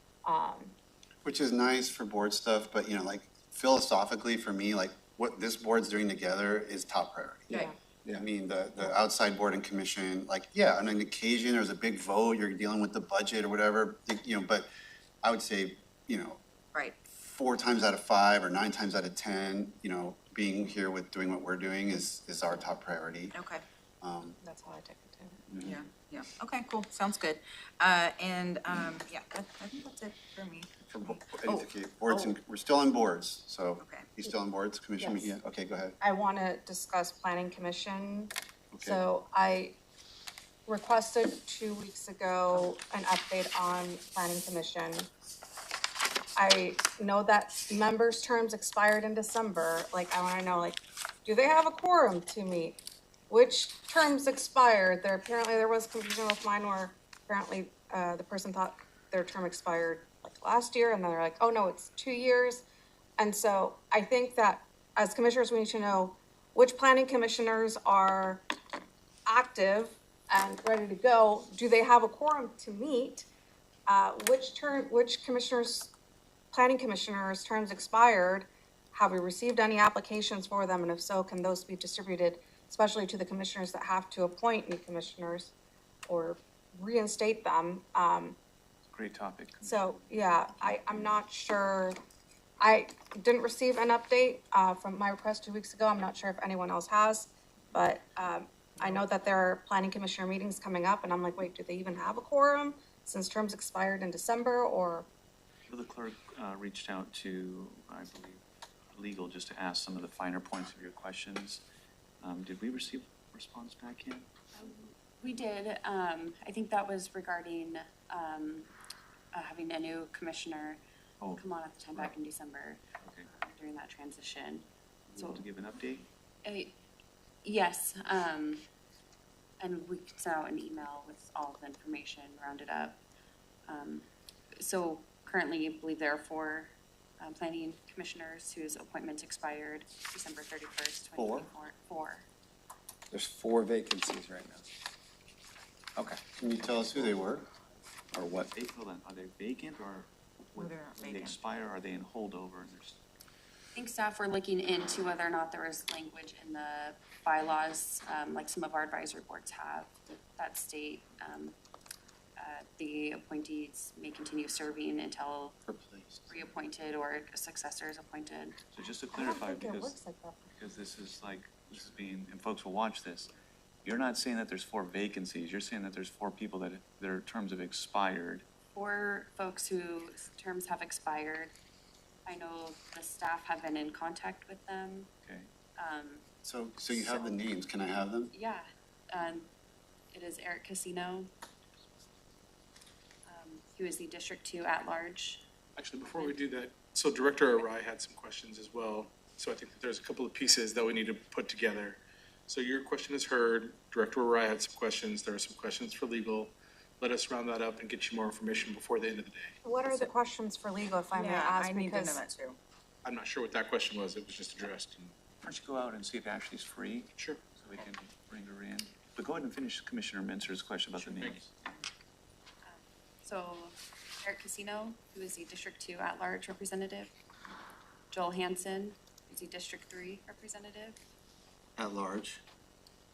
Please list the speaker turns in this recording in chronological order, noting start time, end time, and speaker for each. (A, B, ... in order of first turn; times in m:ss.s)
0:00.2-0:00.7 A
0:01.2-0:14.7 B
0:15.2-0:16.4 B
0:16.7-0:17.0 C
0:17.2-0:23.4 B
0:23.3-0:23.6 C
0:24.0-0:24.4 B
0:24.4-0:25.4 A
0:25.5-0:25.8 B
0:25.6-0:32.4 C
0:30.8-0:36.0 B
0:33.8-0:34.1 C
0:35.0-0:35.3 A
0:36.0-0:39.8 A
0:38.7-0:39.0 B
0:40.7-0:45.1 A
0:46.4-0:52.8 A
0:53.3-1:02.6 A
1:03.2-1:08.4 A
1:09.3-1:13.3 A
1:13.9-1:15.9 A
1:16.5-1:25.5 A
1:26.1-1:28.4 A
1:28.8-1:31.2 D
1:29.6-1:32.0 A
1:32.6-1:45.1 A
1:45.7-1:51.6 D
1:52.2-1:54.3 D
1:54.5-1:58.7 E
1:59.3-2:00.8 E
2:01.2-2:02.1 D
2:01.4-2:05.5 E
2:03.0-2:03.3 D
2:05.1-2:06.1 D
2:06.4-2:06.8 E
2:07.4-2:08.6 E
2:09.6-2:13.0 E
2:13.7-2:22.3 E
2:21.2-2:21.5 B
2:23.1-2:24.6 F
2:26.0-2:26.4 F
2:26.4-2:27.5 B
2:28.1-2:28.5 F
2:28.5-2:33.0 D
2:30.6-2:31.4 C
2:33.7-2:41.6 E
2:42.4-2:45.6 E
2:45.6-2:46.5 B
2:46.3-2:48.6 E
2:48.7-2:50.0 D
2:49.1-2:50.5 A
2:50.5-2:53.3 D
2:53.8-2:58.5 D
2:58.7-3:01.5 E
3:02.3-3:05.1 E
3:05.2-3:05.5 D
3:05.8-3:06.2 E
3:06.4-3:08.3 B
3:06.9-3:07.4 E
3:08.3-3:09.5 E
3:10.1-3:11.3 E
3:13.3-3:15.4 E
3:15.8-3:29.6 G
3:16.0-3:16.4 E
3:17.3-3:17.7 E
3:29.6-3:32.2 A
3:31.1-3:32.6 C
3:33.0-3:35.2 G
3:35.4-3:41.7 D
3:41.0-3:41.5 G
3:42.6-3:47.1 E
3:48.1-3:51.0 E
3:51.8-3:52.4 B